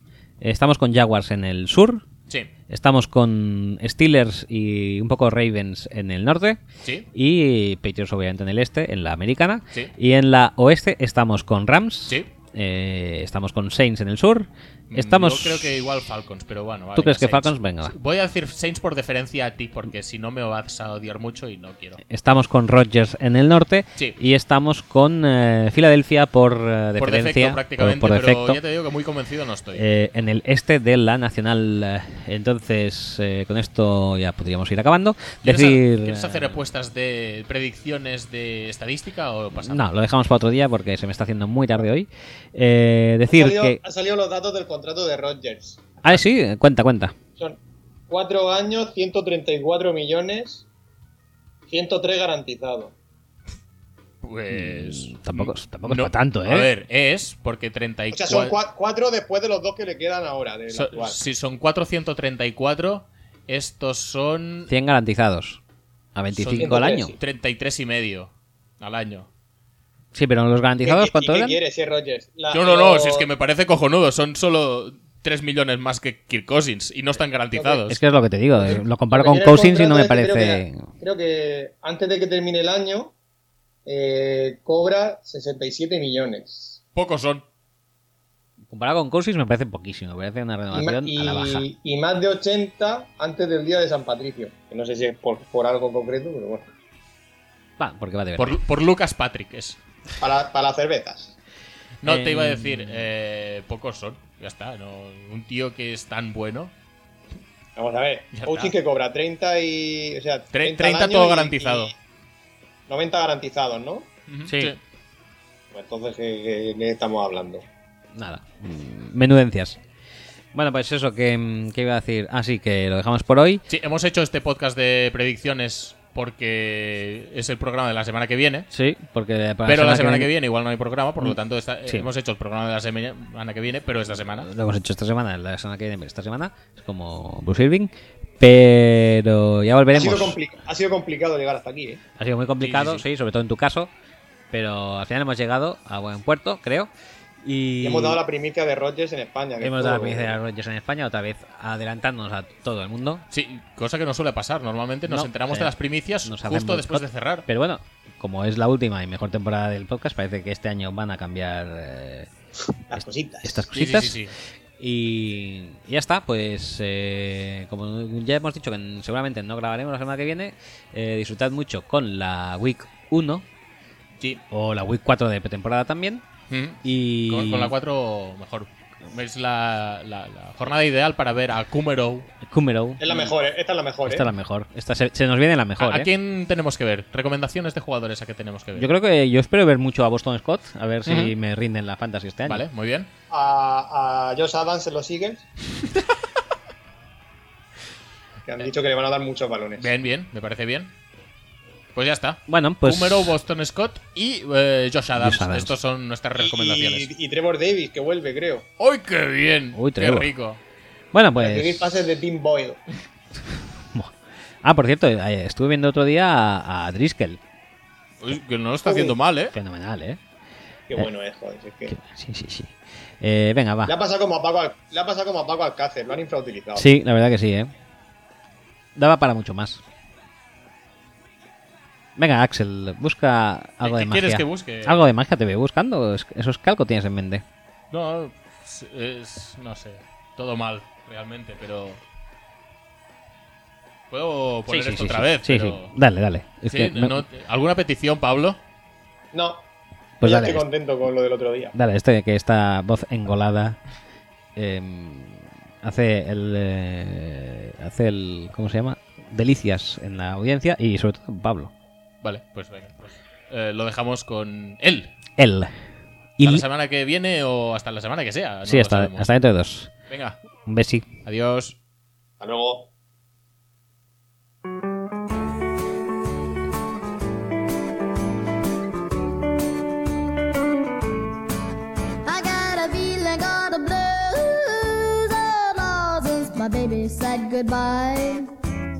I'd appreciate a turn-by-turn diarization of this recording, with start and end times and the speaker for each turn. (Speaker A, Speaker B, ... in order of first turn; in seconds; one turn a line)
Speaker A: 0.4-2.0
Speaker A: 2.7-6.6
Speaker A: 7.1-15.8
Speaker B: 14.9-22.0
Speaker A: 17.0-17.9
Speaker A: 22.0-28.6
Speaker B: 27.0-29.8
Speaker A: 29.7-36.6
Speaker B: 35.4-39.9
Speaker A: 39.6-43.8
Speaker C: 43.3-45.9
Speaker A: 46.0-47.1
Speaker C: 48.1-50.6
Speaker C: 51.7-52.9
Speaker B: 54.2-58.6
Speaker A: 54.5-56.7
Speaker C: 58.1-61.2
Speaker B: 60.7-64.7
Speaker A: 64.7-65.6
Speaker A: 66.2-67.2
Speaker B: 66.3-69.3
Speaker C: 66.6-67.2
Speaker A: 70.1-71.6
Speaker C: 70.8-73.3
Speaker B: 72.5-78.0
Speaker C: 77.5-77.8
Speaker A: 77.9-80.8
Speaker C: 78.5-83.1
Speaker C: 83.9-86.8
Speaker B: 87.0-87.4
Speaker A: 88.7-91.7
Speaker C: 90.7-96.7
Speaker A: 97.8-98.6
Speaker B: 98.4-99.8
Speaker C: 100.2-101.3
Speaker B: 102.0-106.7
Speaker A: 102.0-103.0
Speaker C: 107.8-111.9
Speaker B: 108.3-108.7
Speaker B: 110.5-111.9
Speaker C: 112.9-114.1
Speaker B: 114.3-114.8
Speaker A: 114.5-114.8
Speaker C: 115.7-117.7
Speaker A: 118.1-119.8
Speaker A: 120.5-123.6
Speaker B: 123.7-128.7
Speaker A: 128.7-130.3
Speaker B: 129.7-134.5
Speaker A: 131.2-132.1
Speaker A: 134.4-140.4
Speaker C: 139.9-142.0
Speaker A: 142.2-143.9
Speaker B: 142.6-143.1
Speaker A: 144.5-146.9
Speaker A: 147.4-148.2
Speaker C: 147.8-150.4
Speaker A: 149.6-153.2
Speaker B: 153.3-157.5
Speaker A: 155.1-162.3
Speaker C: 162.9-163.7
Speaker A: 163.0-173.5
Speaker B: 163.7-164.3
Speaker A: 174.5-176.2
Speaker B: 176.5-182.3
Speaker A: 176.8-177.8
Speaker A: 182.4-183.3
Speaker C: 183.0-184.3
Speaker A: 184.1-186.1
Speaker B: 185.8-188.9
Speaker A: 188.8-192.7
Speaker B: 191.1-191.3
Speaker B: 192.4-193.1
Speaker C: 193.3-195.4
Speaker C: 198.5-199.9
Speaker B: 199.8-200.9
Speaker B: 201.9-207.1
Speaker A: 202.5-203.4
Speaker A: 205.2-205.8
Speaker C: 206.4-208.7
Speaker B: 208.8-210.6
Speaker A: 209.8-210.3
Speaker A: 211.1-211.9
Speaker C: 211.4-212.8
Speaker A: 213.4-217.4
Speaker B: 218.2-219.6
Speaker C: 218.8-219.2
Speaker A: 219.5-220.2
Speaker C: 220.9-221.9
Speaker A: 221.9-224.0
Speaker C: 223.9-226.9
Speaker A: 226.8-227.7
Speaker A: 229.0-229.8
Speaker A: 232.2-237.4
Speaker B: 233.8-235.1
Speaker B: 237.9-242.0
Speaker B: 244.1-245.9
Speaker A: 244.7-247.3
Speaker B: 246.7-248.6
Speaker C: 249.3-249.6
Speaker A: 250.2-250.7
Speaker C: 250.2-251.7
Speaker A: 251.7-253.8
Speaker A: 254.6-261.7
Speaker B: 262.2-265.1
Speaker A: 265.4-265.8
Speaker A: 266.4-266.6
Speaker B: 266.4-269.3
Speaker A: 268.6-269.9
Speaker B: 270.1-270.4
Speaker A: 270.7-271.1
Speaker B: 271.2-271.8
Speaker C: 272.4-272.9
Speaker D: 282.2-288.5